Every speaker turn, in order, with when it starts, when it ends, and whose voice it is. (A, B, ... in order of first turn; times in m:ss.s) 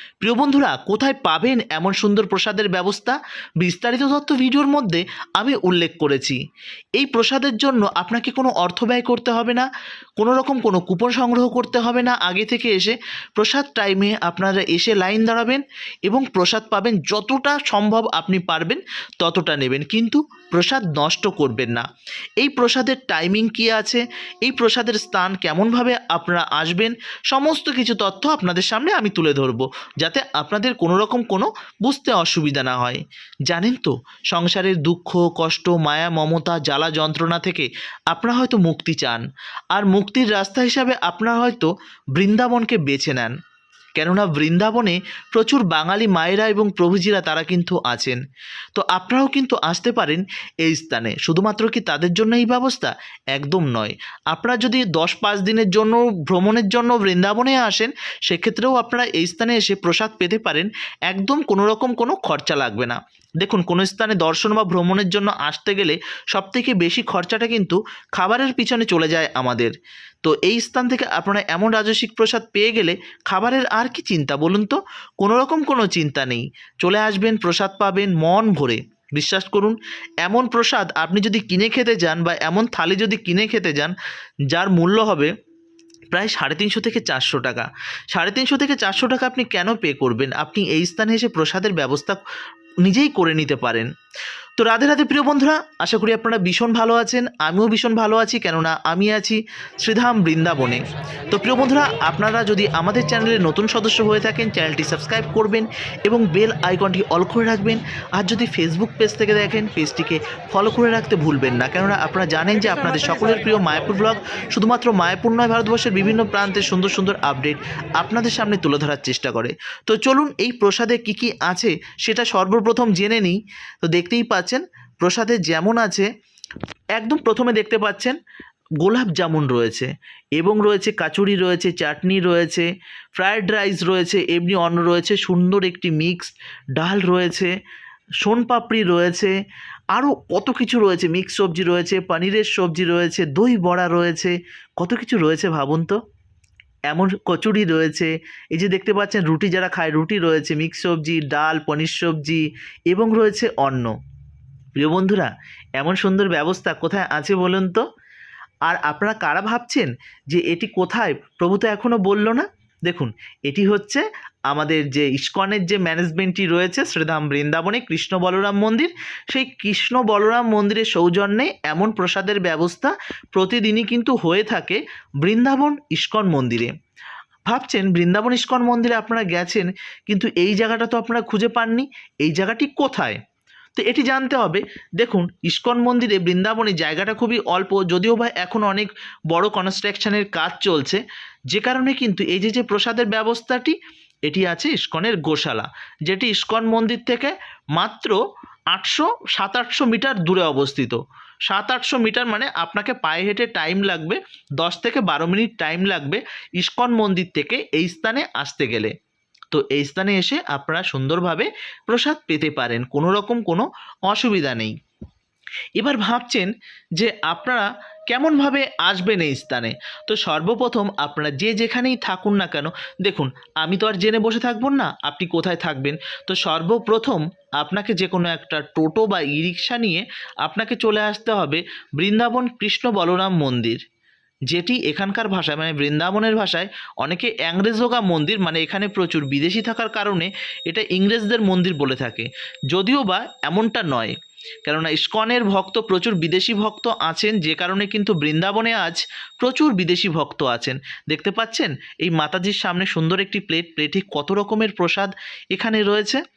0:00.2-0:06.4 A
0:07.0-0:09.6 A
0:10.2-0:21.8 A
0:22.4-0:43.3 A
0:44.0-0:48.2 A
0:48.7-1:09.7 A
1:10.2-1:23.9 A
1:24.5-1:25.3 A
1:26.1-1:32.2 A
1:32.8-1:33.9 A
1:34.6-2:06.1 A
2:07.0-2:08.2 A
2:08.8-2:17.5 A
2:18.2-2:19.3 A
2:19.9-2:26.0 A
2:26.9-2:33.9 A
2:34.8-2:37.8 A
2:38.6-2:56.7 A
2:57.5-3:03.2 A
3:03.8-3:13.8 A
3:14.3-3:18.2 A
3:18.7-3:28.9 A
3:29.5-3:34.7 A
3:35.8-3:53.8 A
3:54.5-4:04.1 A
4:04.6-4:16.2 A